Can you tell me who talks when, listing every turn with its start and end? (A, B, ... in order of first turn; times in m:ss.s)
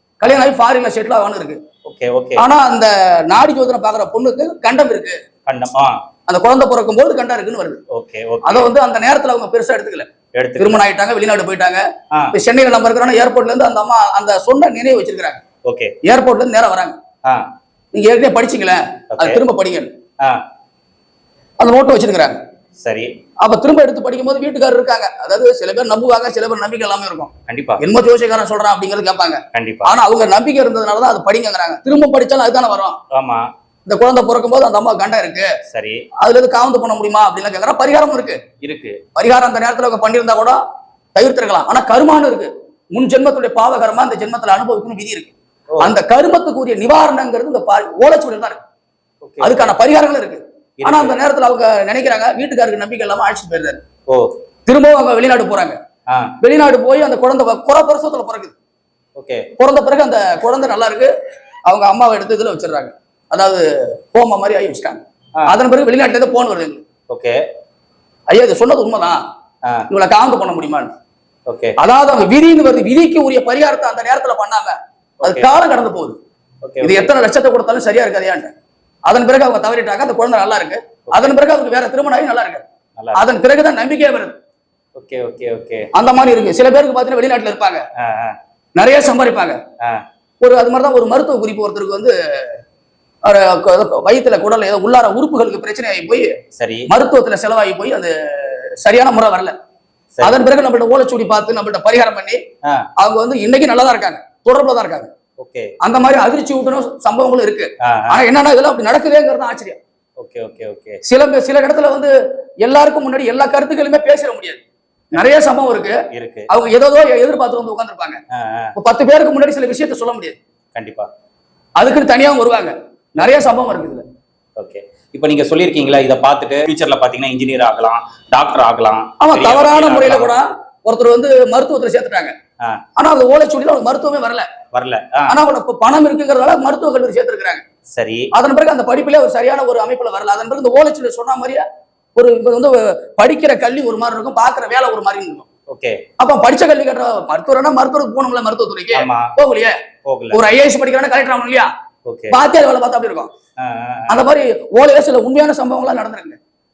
0:00.2-0:01.6 A
0:01.8-0:02.4 B
0:02.4-0:05.2 A
0:05.5-0:06.0 B
0:06.3-0:07.8 A
0:07.9-0:08.7 B
0:08.4-0:15.4 A
0:10.3-0:10.8 B
0:15.6-0:15.9 B
0:16.0-0:17.0 A
0:17.9-0:19.9 A
0:19.1-0:19.4 B
0:21.6-0:22.4 A
0:22.8-0:23.1 B
0:23.4-0:33.0 A
0:27.5-0:27.8 B
0:29.5-0:29.9 B
0:33.1-0:33.5 B
0:33.9-0:35.5 A
0:35.7-0:36.1 B
0:36.2-0:38.4 A
0:38.6-0:39.0 B
0:39.2-0:40.6 A
0:41.2-0:48.6 A
0:49.2-0:49.7 B
0:49.4-0:53.8 A
0:50.8-0:51.2 B
0:54.7-0:55.8 A
0:56.1-0:56.3 B
0:56.4-0:58.6 A
0:59.2-0:59.5 B
0:59.6-1:01.1 A
1:01.7-1:06.8 A
1:07.1-1:07.4 B
1:08.3-1:09.2 A
1:09.9-1:10.9 A
1:11.5-1:11.8 B
1:11.8-1:16.2 A
1:15.2-1:15.5 B
1:16.6-1:17.1 B
1:16.8-1:18.5 A
1:19.1-1:22.6 A
1:21.1-1:21.4 B
1:23.0-1:23.2 B
1:23.2-1:24.4 A
1:25.0-1:25.9 B
1:25.9-1:27.8 A
1:28.0-1:28.4 B
1:28.8-1:29.6 A
1:30.4-1:32.6 A
1:33.2-1:36.4 A
1:36.6-1:36.9 B
1:36.9-1:39.6 A
1:40.2-1:42.4 A
1:43.0-1:45.1 A
1:45.4-1:45.7 B
1:45.8-1:49.8 A
1:47.8-1:48.2 B
1:50.2-1:51.0 B
1:51.0-1:54.6 A
1:55.1-1:58.2 A
1:56.1-1:56.5 B
1:58.3-1:58.8 B
1:58.8-2:00.4 A
2:00.8-2:01.1 B
2:01.8-2:04.0 A
2:04.6-2:10.4 B
2:09.2-2:12.3 A
2:13.0-2:14.5 A
2:14.7-2:15.4 B
2:15.3-2:17.6 A
2:17.9-2:18.3 B
2:18.3-2:21.6 A
2:22.2-2:25.5 A
2:25.7-2:26.0 B
2:26.2-2:29.8 A
2:28.9-2:29.4 B
2:30.0-2:30.4 B
2:30.3-2:31.7 A
2:32.0-2:32.4 B
2:32.3-2:33.3 A
2:33.6-2:34.2 B
2:34.1-2:36.4 A